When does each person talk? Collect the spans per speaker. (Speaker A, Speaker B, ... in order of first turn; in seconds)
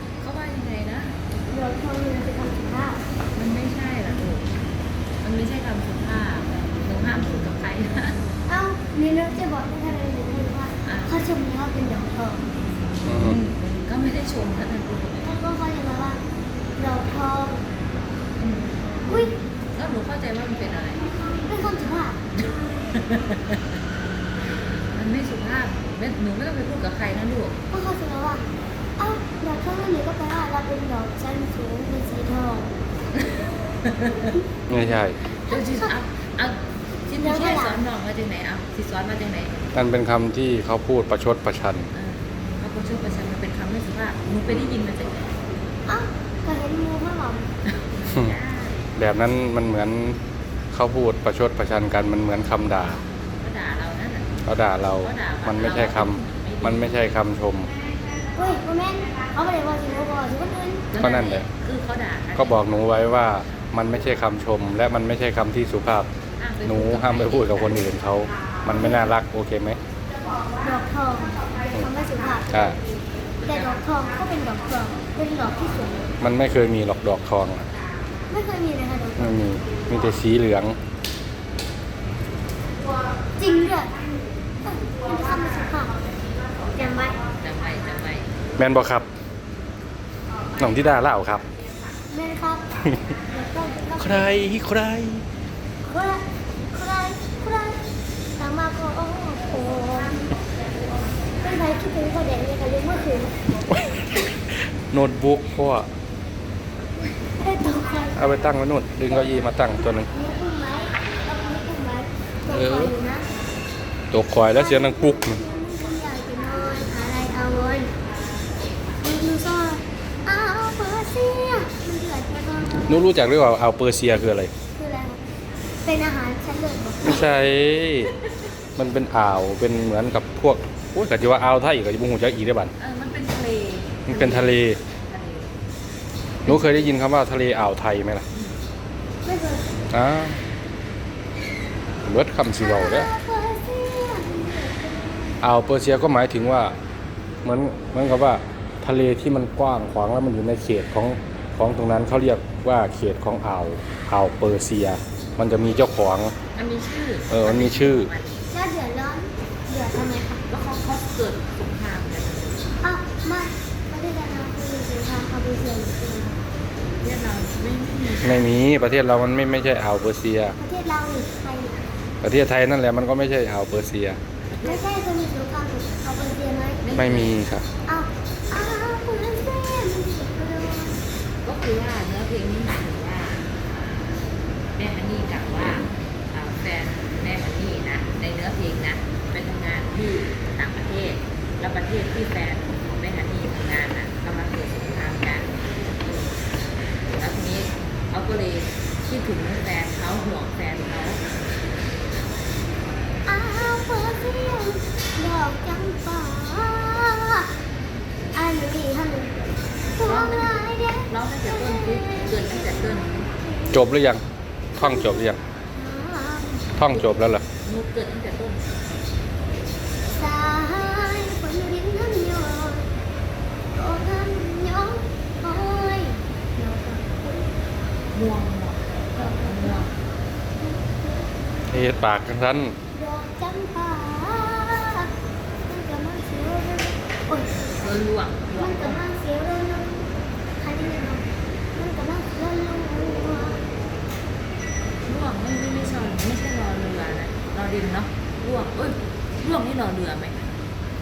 Speaker A: 0.2-1.1, 3.3-4.5, 5.2-8.2, 10.8-11.1, 13.1-15.3, 18.4-21.0, 22.9-23.7, 24.9-27.6, 33.1-34.4, 35.5-39.8, 41.9-45.4, 47.7-48.8, 53.4-54.4, 55.0-57.1, 60.9-62.7, 66.4-67.9, 73.4-73.8, 87.4-88.3, 132.8-135.5, 136.4-137.0, 156.5-158.4, 160.5-162.7, 167.0-168.5, 174.5-174.8, 176.8-177.4, 181.4-183.5, 184.7-196.4, 197.1-201.2, 210.0-213.3, 217.6-218.7, 228.1-229.9, 237.7-239.0, 245.0-250.5
Speaker B: 1.5-3.0, 8.5-12.4, 15.2-16.2, 16.8-17.6, 19.1-19.4, 21.1-22.9, 27.7-28.4, 29.0-32.7, 35.5-36.0, 37.2-37.8, 45.9-47.5, 58.4-60.9, 68.7-69.1, 70.6-72.8, 73.4-76.1, 78.3-79.5, 83.4-83.9, 84.6-86.0, 86.7-87.2, 92.1-94.5, 95.8-97.8, 98.4-100.3, 101.4-103.3, 107.4-108.2, 110.1-113.3, 114.5-117.9, 119.0-123.1, 124.8-125.2, 125.8-127.3, 139.2-139.8, 142.5-145.4, 158.5-160.4, 162.8-166.4, 170.6-171.8, 174.6-176.9, 177.8-181.0, 203.2-207.4, 208.3-213.8, 214.8-217.1, 220.1-222.9, 223.7-227.5, 229.1-229.9, 230.6-231.7, 232.9-235.1, 235.7-237.7, 238.5-241.2, 241.7-243.7
Speaker C: 13.0-13.4, 34.7-35.2, 39.7-41.9, 49.0-50.2, 50.7-53.0, 54.5-57.7, 61.0-61.5, 62.4-66.1, 66.6-69.8, 72.5-72.8, 76.2-77.7, 79.2-80.8, 88.6-89.1, 90.6-91.4, 94.0-95.2, 103.7-104.3, 104.9-105.9, 108.1-110.1, 112.5-112.9, 114.1-115.4, 122.9-124.5, 127.0-128.1, 128.8-132.7, 134.1-134.8, 136.4-138.2, 139.9-140.4, 142.0-143.1, 145.4-146.7, 147.4-156.3, 157.3-158.1, 168.2-170.6, 172.2-174.2, 176.9-177.7, 213.7-214.2, 214.8-215.4, 216.8-217.4, 231.7-232.7